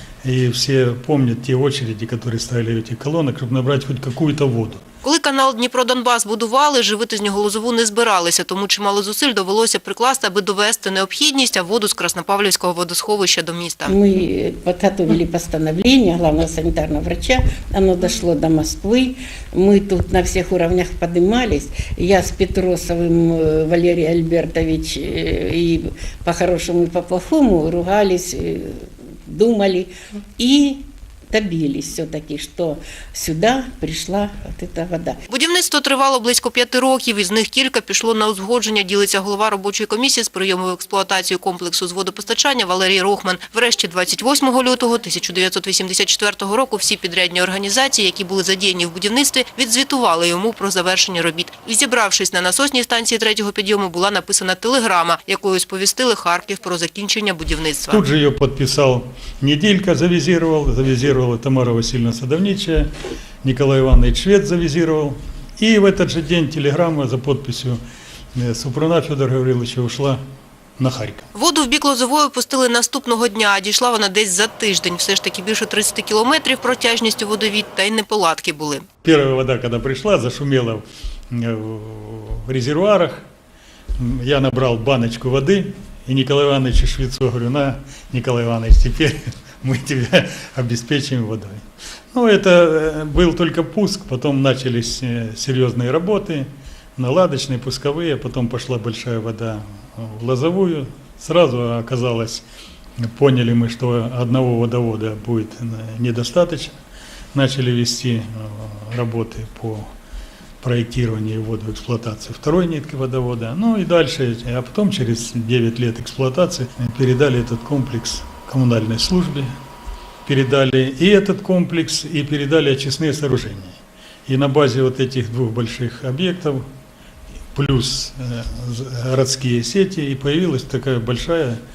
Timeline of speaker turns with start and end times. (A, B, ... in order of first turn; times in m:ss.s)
0:00.2-0:04.8 A
0:05.0-0:13.9 B
0:13.8-0:35.2 C
0:35.3-0:58.0 B
0:57.9-1:02.9 A
1:03.4-1:07.8 A
1:08.4-1:10.2 A
1:10.8-1:11.3 A
1:11.3-1:18.8 B
1:19.0-1:23.3 A
1:24.0-1:42.4 A
1:43.0-1:46.8 A
1:47.3-1:49.9 A
1:50.6-1:59.5 A
2:00.2-2:06.6 A
2:07.5-2:11.6 A